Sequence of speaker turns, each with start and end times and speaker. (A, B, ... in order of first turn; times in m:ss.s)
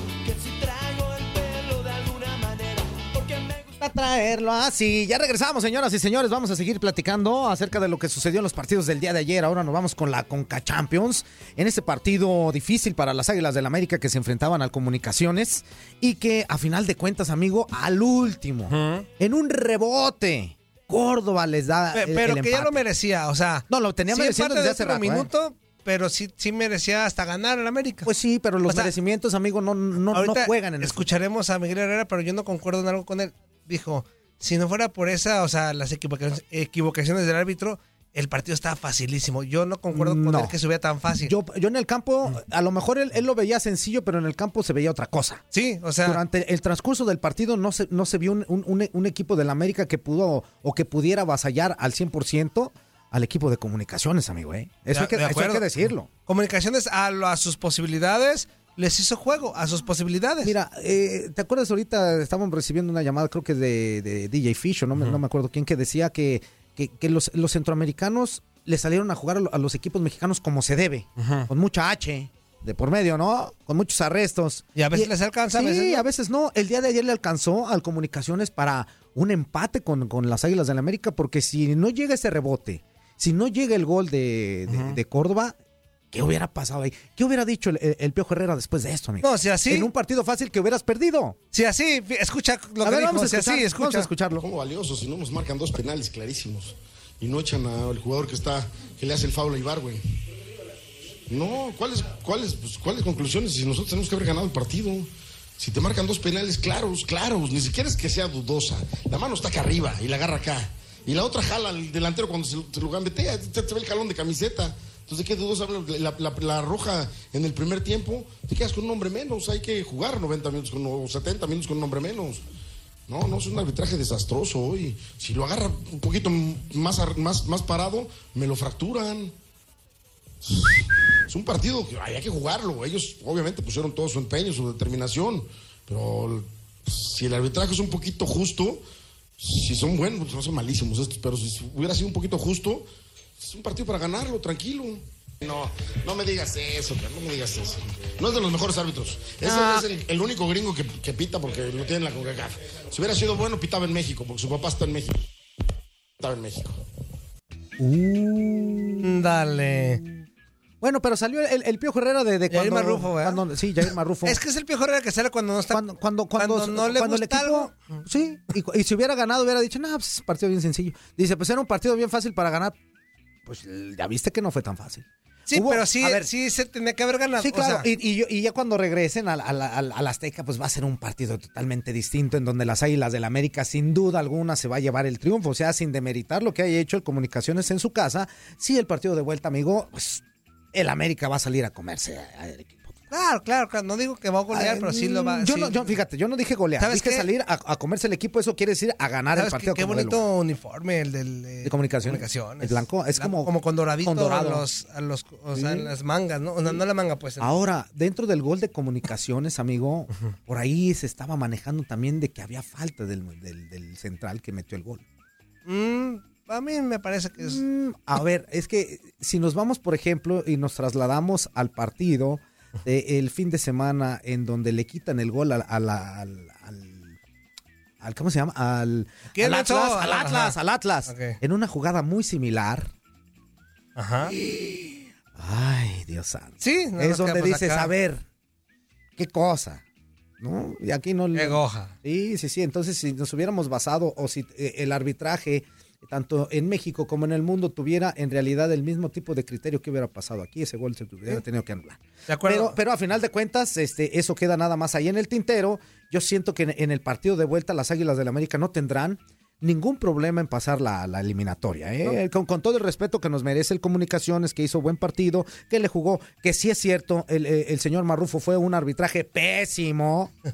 0:00.2-0:03.7 A
0:03.8-0:22.8 B
0:18.7-0:19.0 C
0:21.9-0:28.1 C
0:23.7-0:25.3 B
0:28.0-0:31.1 B
0:28.7-0:28.9 C
0:30.1-0:41.3 C
0:39.9-0:40.5 B
0:41.2-0:45.4 B
0:45.5-0:46.2 C
0:46.0-0:56.1 B
0:54.9-1:00.5 C
1:00.4-1:25.6 B
1:11.2-1:11.5 C
1:14.8-1:16.0 C
1:24.7-1:25.0 C
1:26.1-1:31.4 B
1:29.2-1:29.9 C
1:31.5-1:34.1 C
1:32.8-1:34.4 B
1:34.4-1:40.0 D
1:41.3-2:02.4 D
2:03.1-2:09.3 D
2:10.4-2:18.8 D
2:19.4-2:35.2 D
2:29.4-2:29.9 B
2:36.2-2:36.8 D
2:37.8-2:39.2 B
2:39.0-2:40.0 C
2:40.8-2:44.4 B
2:42.5-2:43.4 C
2:44.2-2:45.8 C
2:45.7-2:52.8 B
2:46.4-2:48.0 C
2:53.4-2:56.3 B
2:55.5-2:57.9 C
2:57.4-3:12.9 B
3:13.1-3:16.0 C
3:14.5-3:20.3 B
3:16.8-3:17.3 C
3:19.3-3:27.5 C
3:21.6-3:23.5 B
3:24.0-3:24.6 B
3:25.5-3:25.9 B
3:27.4-3:35.0 B
3:35.6-3:37.6 C
3:37.4-3:47.2 B
3:48.0-3:52.9 B
3:49.3-3:50.6 C
3:51.1-3:51.4 C
3:54.0-3:54.4 C
3:55.3-3:58.2 B
3:56.6-3:57.9 C
3:59.2-3:59.8 B
4:00.4-4:30.3 B
4:01.3-4:01.9 C
4:12.3-4:12.8 C